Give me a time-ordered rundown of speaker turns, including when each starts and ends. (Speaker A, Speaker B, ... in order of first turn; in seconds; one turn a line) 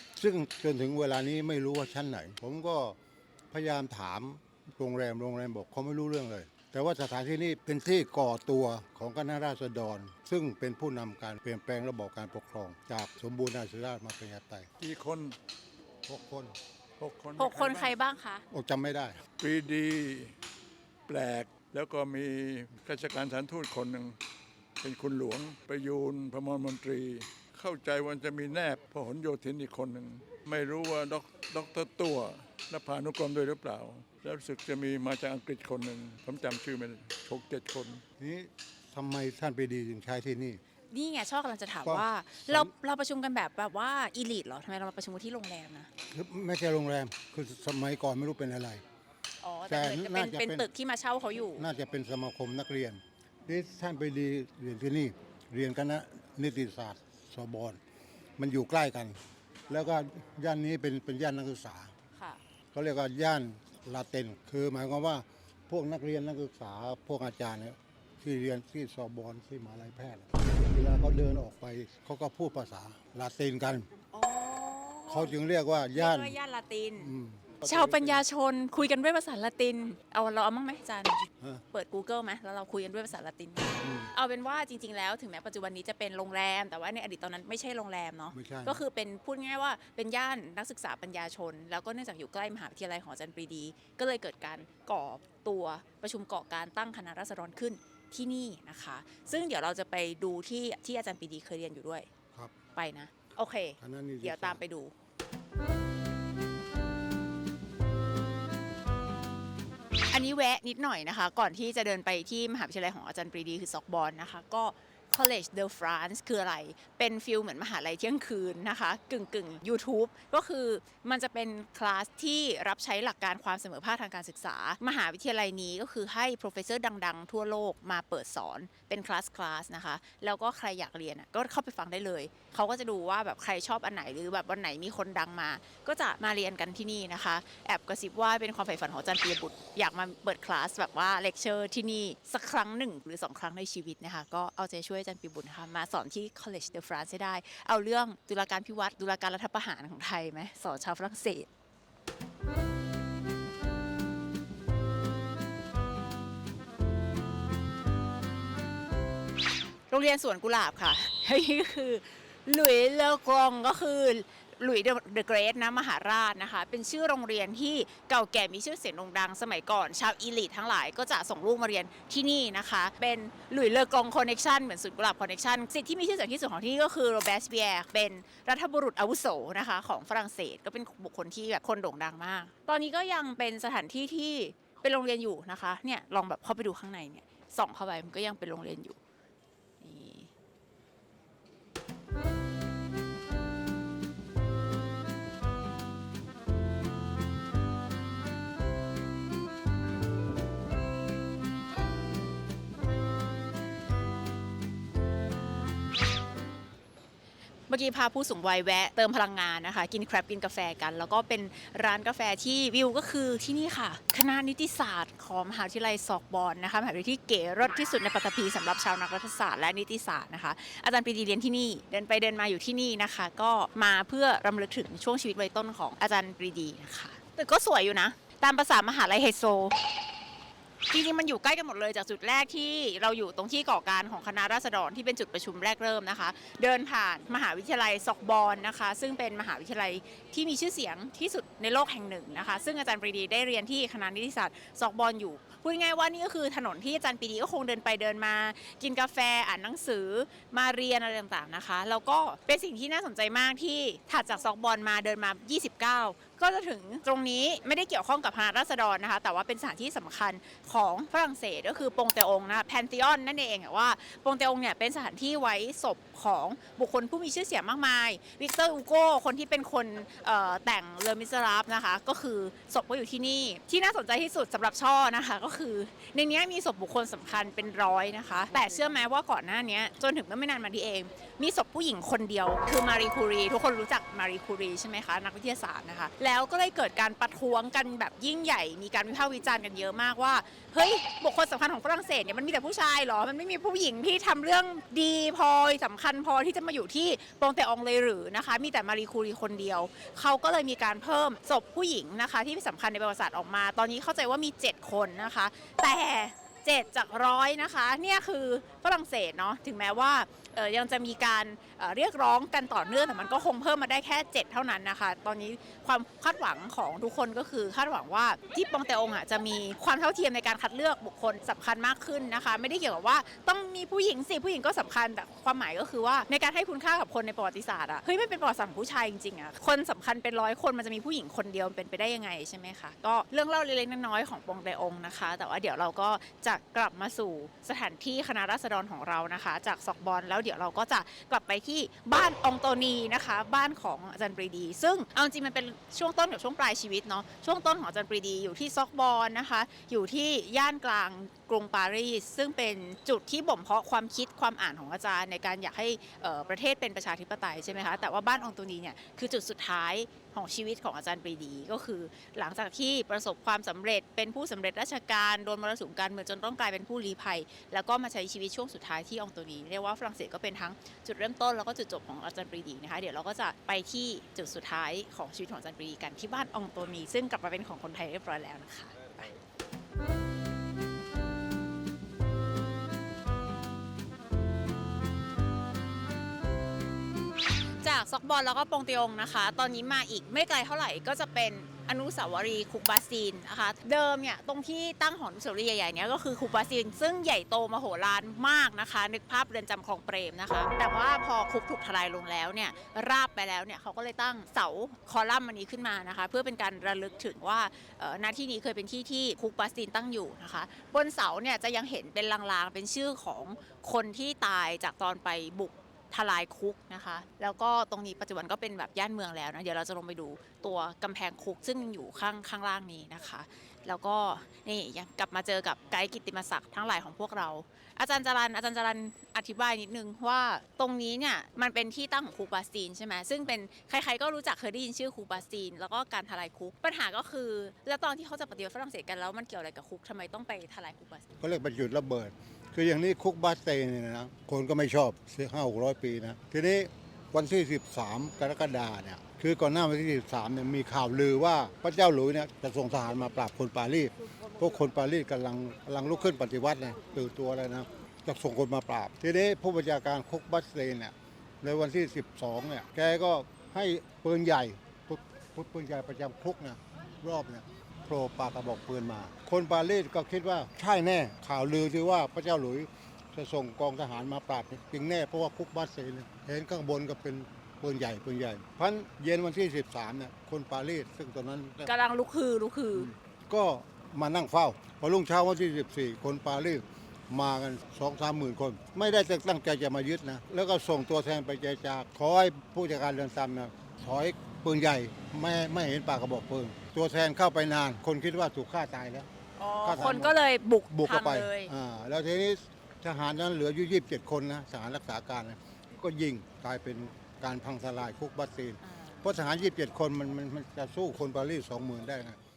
Speaker A: 0.1-3.0
Speaker A: 3.5-14.7
Speaker B: 14.8-15.3
Speaker A: 16.1-16.6
Speaker B: 17.0-17.9
Speaker C: 17.4-18.4
Speaker A: 18.5-19.2
Speaker B: 19.4-20.3
Speaker B: 21.1-24.2
Speaker B: 24.8-38.0
Speaker A: 38.2-40.6
Speaker C: 40.9-45.9
Speaker A: 41.8-42.7
Speaker A: 46.1-48.8
Speaker C: 49.4-51.6
Speaker A: 49.7-50.7
Speaker A: 51.5-57.8
Speaker A: 58.4-59.2
Speaker A: 59.7-61.9
Speaker A: 62.7-73.9
Speaker C: 74.1-75.3
Speaker A: 75.1-76.3
Speaker C: 75.9-77.1
Speaker A: 77.0-78.2
Speaker C: 77.6-102.0
Speaker A: 83.8-84.1
Speaker A: 88.3-88.8
Speaker C: 102.8-104.9
Speaker A: 103.8-104.6
Speaker C: 110.1-151.5
Speaker C: 159.9-189.0
Speaker C: 189.8-190.3
Speaker C: 207.7-229.8
Speaker C: 230.9-379.3
Speaker C: 387.8-441.3
Speaker A: 441.4-481.9
Speaker C: 481.9-483.1
Speaker A: 483.5-499.3
Speaker C: 499.6-501.7
Speaker A: 499.8-500.4
Speaker A: 500.9-512.4
Speaker C: 508.9-509.2